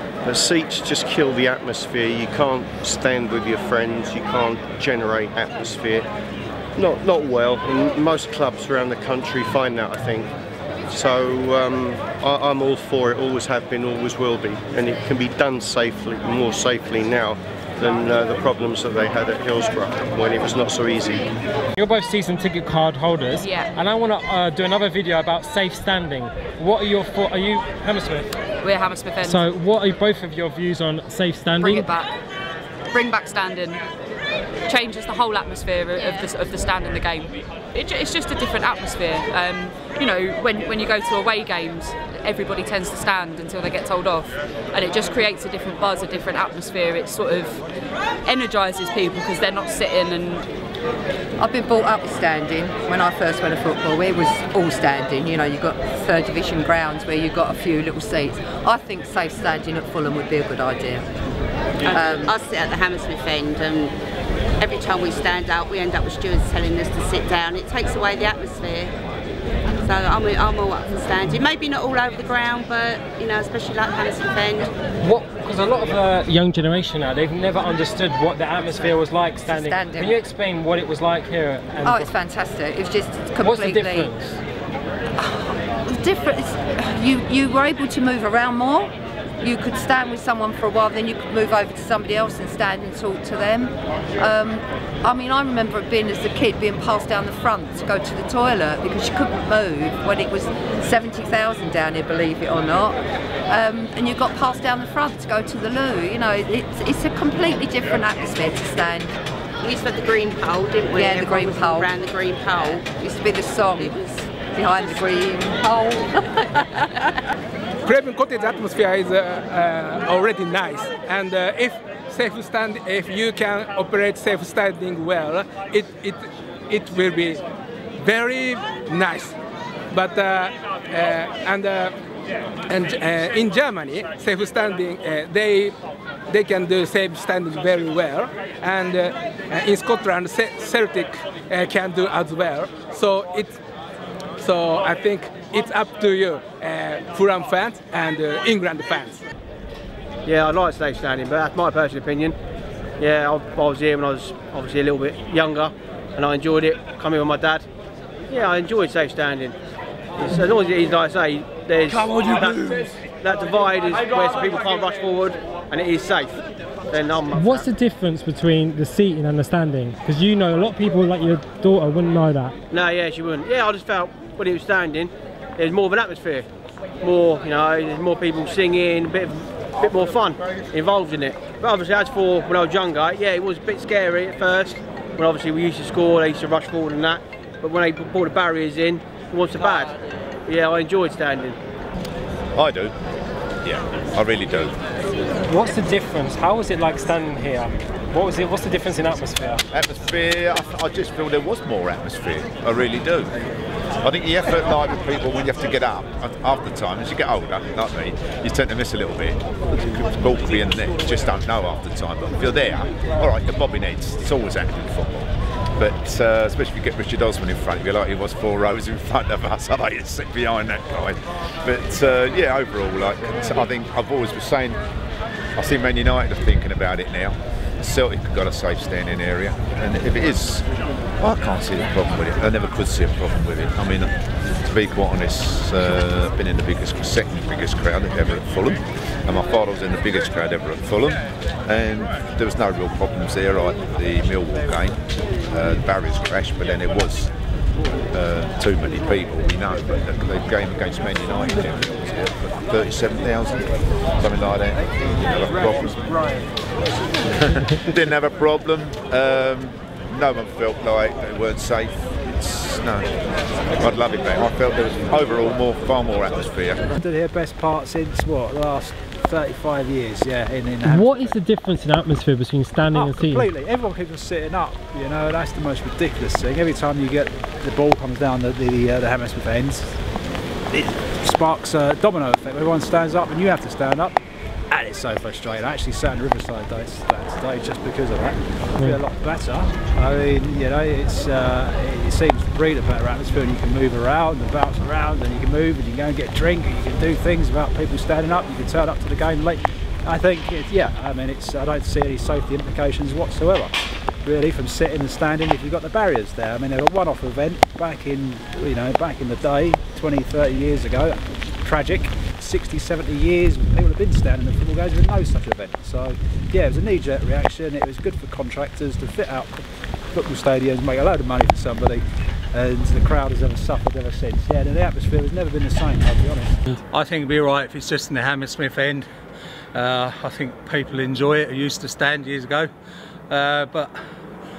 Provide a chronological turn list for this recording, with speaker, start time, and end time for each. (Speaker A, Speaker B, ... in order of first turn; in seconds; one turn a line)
Speaker A: 0.2-6.1
Speaker A: 6.8-10.3
Speaker A: 10.9-21.3
Speaker B: 21.8-28.3
Speaker C: 23.4-23.7
Speaker C: 28.6-29.4
Speaker B: 29.2-31.9
Speaker C: 31.6-32.1
Speaker C: 32.9-33.8
Speaker C: 34.6-47.6
Speaker C: 48.2-50.4
Speaker D: 51.4-61.0
Speaker D: 61.9-62.3
Speaker E: 61.9-63.9
Speaker E: 64.6-68.9
Speaker E: 69.8-74.7
Speaker B: 75.0-82.1
Speaker D: 79.4-80.2
Speaker D: 81.8-84.1
Speaker B: 83.4-84.4
Speaker D: 85.2-103.0
Speaker D: 103.5-109.1
Speaker E: 109.6-112.8
Speaker D: 110.9-116.9
Speaker E: 113.7-115.1
Speaker F: 117.8-127.4
Speaker F: 128.0-129.3
Speaker F: 129.9-131.9
Speaker F: 132.7-135.7
Speaker F: 136.3-143.6
Speaker F: 144.4-149.2
Speaker G: 150.2-152.3
Speaker G: 153.0-157.7
Speaker G: 158.3-159.6
Speaker G: 160.2-166.4
Speaker H: 161.9-162.8
Speaker G: 166.9-167.7
Speaker B: 167.3-172.6
Speaker G: 172.7-176.4
Speaker G: 177.0-189.9
Speaker G: 190.5-191.6
Speaker I: 192.5-192.9
Speaker I: 193.6-194.8
Speaker B: 195.5-199.6
Speaker I: 199.7-203.3
Speaker I: 204.0-224.8
Speaker I: 225.6-230.7
Speaker I: 231.2-234.1
Speaker I: 234.6-247.3
Speaker I: 248.1-256.4
Speaker I: 257.2-263.2
Speaker I: 263.8-266.8
Speaker J: 266.9-271.4
Speaker B: 270.8-273.5
Speaker J: 272.9-280.0
Speaker J: 280.7-284.2
Speaker J: 284.7-326.6
Speaker H: 326.7-329.1
Speaker H: 329.7-332.7
Speaker H: 333.3-334.0